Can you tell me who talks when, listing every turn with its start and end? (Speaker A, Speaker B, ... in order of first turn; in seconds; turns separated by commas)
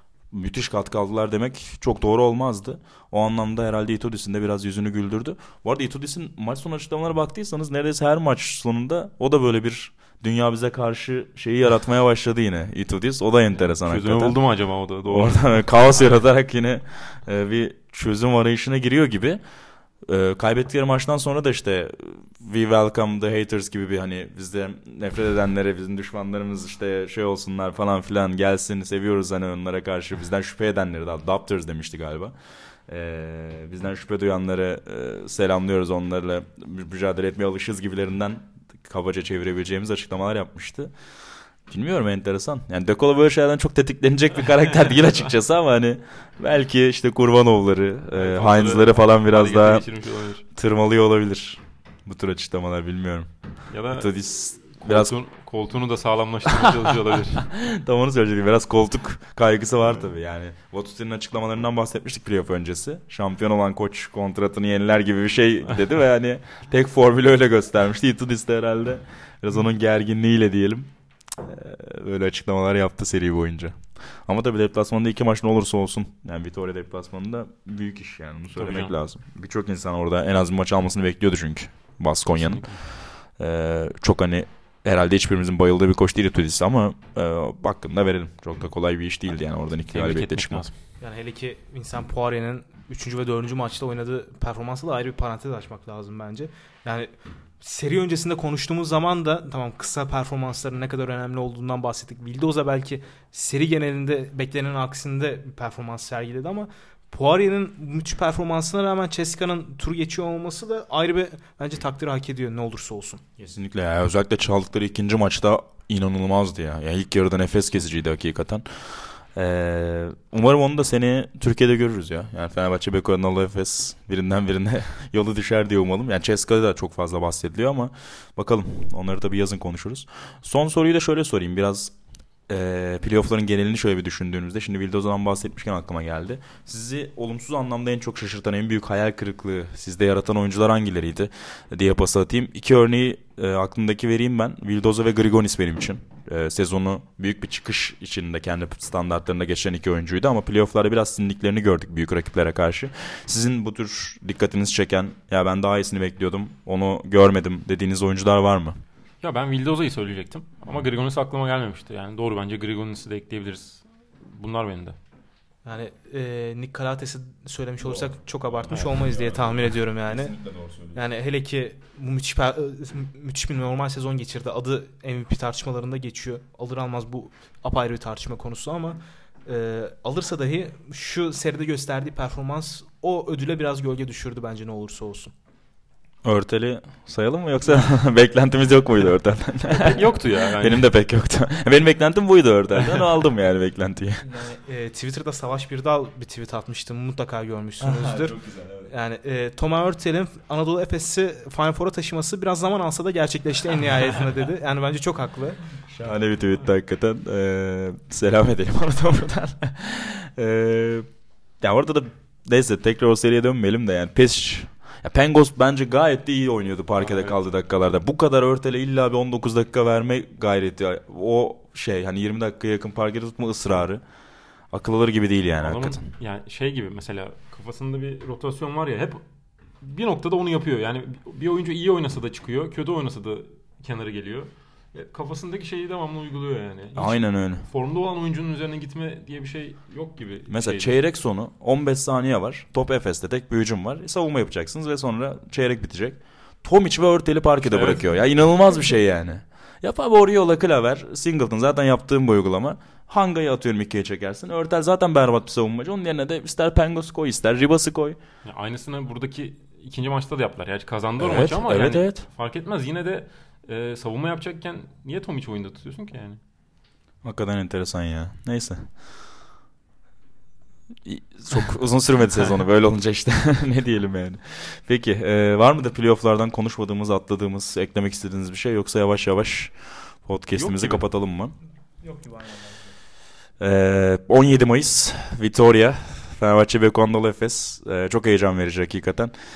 Speaker A: 0.3-14.4, Speaker B: 13.6-16.0, Speaker A: 15.1-19.4, Speaker A: 20.1-32.3, Speaker A: 32.9-40.9, Speaker A: 41.7-49.9, Speaker B: 48.1-50.5, Speaker A: 50.5-53.3, Speaker B: 53.7-54.1, Speaker A: 53.9-55.1, Speaker B: 54.8-57.5, Speaker A: 57.5-70.9, Speaker A: 71.4-82.8, Speaker B: 78.6-78.9, Speaker B: 82.3-82.8, Speaker A: 83.3-90.6, Speaker B: 89.9-90.7, Speaker C: 91.0-113.2, Speaker A: 113.4-118.7, Speaker A: 119.3-131.9, Speaker A: 132.5-158.8, Speaker B: 159.2-165.0, Speaker C: 165.7-170.4, Speaker A: 167.8-171.0, Speaker B: 168.7-169.0, Speaker C: 170.9-185.3, Speaker A: 186.2-194.3, Speaker B: 189.7-190.9, Speaker C: 194.2-198.4, Speaker A: 197.8-198.9, Speaker C: 198.9-205.6, Speaker A: 205.9-211.1, Speaker A: 211.6-224.0, Speaker B: 217.0-217.4, Speaker A: 224.7-226.1, Speaker B: 225.6-229.2, Speaker B: 229.8-241.0, Speaker A: 236.9-237.7, Speaker A: 240.5-258.2, Speaker B: 247.6-248.1, Speaker B: 258.4-266.4, Speaker A: 261.2-262.3, Speaker A: 267.2-268.9, Speaker A: 271.1-279.7, Speaker A: 280.2-281.6, Speaker B: 280.6-281.1, Speaker C: 282.0-282.9, Speaker A: 283.6-289.3